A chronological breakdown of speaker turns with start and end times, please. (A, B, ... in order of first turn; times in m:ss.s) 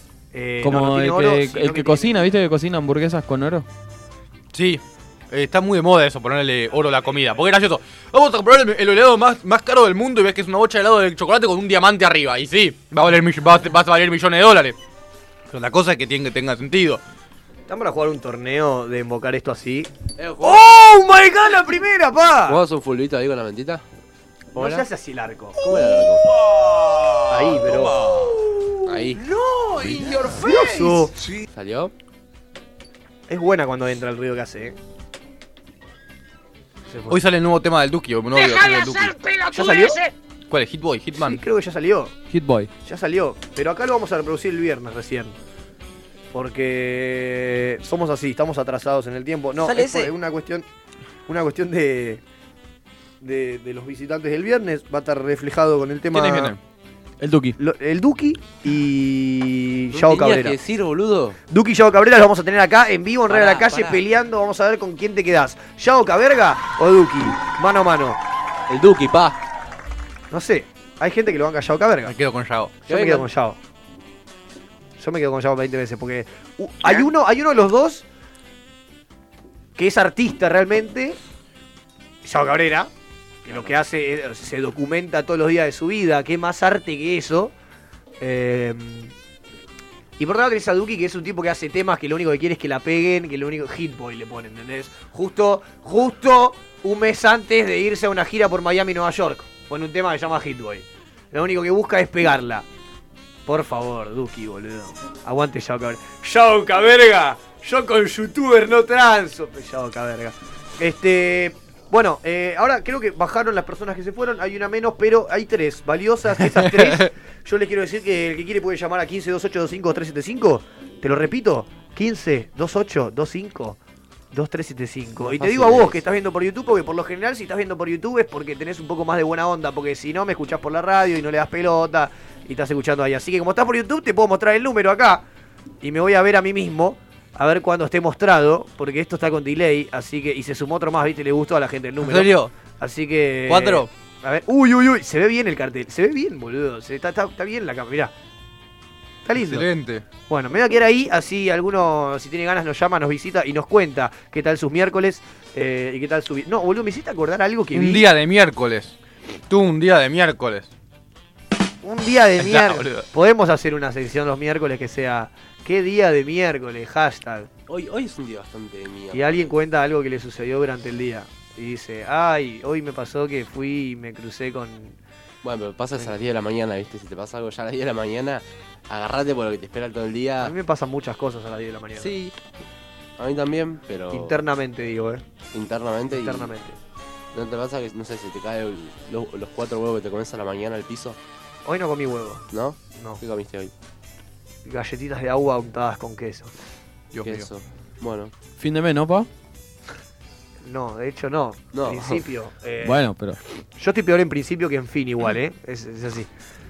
0:00.3-0:02.3 A
0:00.6-0:03.7 B
0:04.5-0:14.8 C
0:15.5-0:17.0 C
0:17.7-0:22.6 A
0:20.2-0:20.8 D
0:22.5-0:23.8 D
0:24.5-0:24.9 D
0:24.6-0:25.7 A
0:25.6-0:26.2 D
0:26.6-0:28.3 C
0:27.2-0:28.0 A
0:28.8-0:29.2 D
0:29.8-0:30.4 D
0:29.8-0:31.1 A
0:31.5-0:31.9 D
0:33.3-0:34.8 A
0:36.9-0:37.2 A
0:37.1-0:39.2 C
0:39.5-0:40.0 A
0:40.5-0:41.4 C
0:41.1-0:42.1 A
0:42.3-0:42.7 B
0:42.8-0:45.3 A
0:46.3-0:50.6 A
0:51.3-0:52.2 A
0:53.2-0:56.5 A
0:56.1-0:56.6 C
0:57.2-0:57.6 B
0:57.6-1:00.6 A
0:59.9-1:01.4 D
1:01.5-1:08.2 A
1:03.3-1:04.0 D
1:08.7-1:09.4 D
1:10.3-1:12.1 A
1:12.0-1:12.7 C
1:12.8-1:13.6 A
1:12.9-1:13.3 D
1:15.0-1:18.0 A
1:19.8-1:21.2 A
1:22.2-1:22.9 A
1:23.4-1:27.5 A
1:28.2-1:29.1 A
1:30.2-1:42.6 A
1:43.4-2:03.8 A
1:56.4-1:57.1 C
2:04.3-2:15.2 A
2:05.2-2:06.0 D
2:15.8-2:28.1 A
2:22.0-2:22.5 C
2:23.5-2:23.9 C
2:29.2-2:29.7 A
2:29.3-2:30.0 C
2:30.3-2:38.0 A
2:37.7-2:39.0 C
2:39.5-2:40.7 C
2:41.8-2:47.5 A
2:42.4-2:43.0 C
2:47.7-2:49.5 D
2:49.1-2:55.0 A
2:55.4-3:00.5 D
3:00.4-3:02.1 A
3:03.2-3:04.4 D
3:04.1-3:05.2 A
3:05.5-3:06.5 D
3:06.1-3:06.8 A
3:07.3-3:11.2 D
3:11.6-3:12.4 A
3:12.5-3:13.7 D
3:14.6-3:16.5 A
3:17.1-3:17.5 C
3:17.2-3:18.3 D
3:18.6-3:19.3 B
3:20.6-3:23.0 A
3:21.7-3:22.2 D
3:22.8-3:23.4 B
3:23.7-3:26.3 A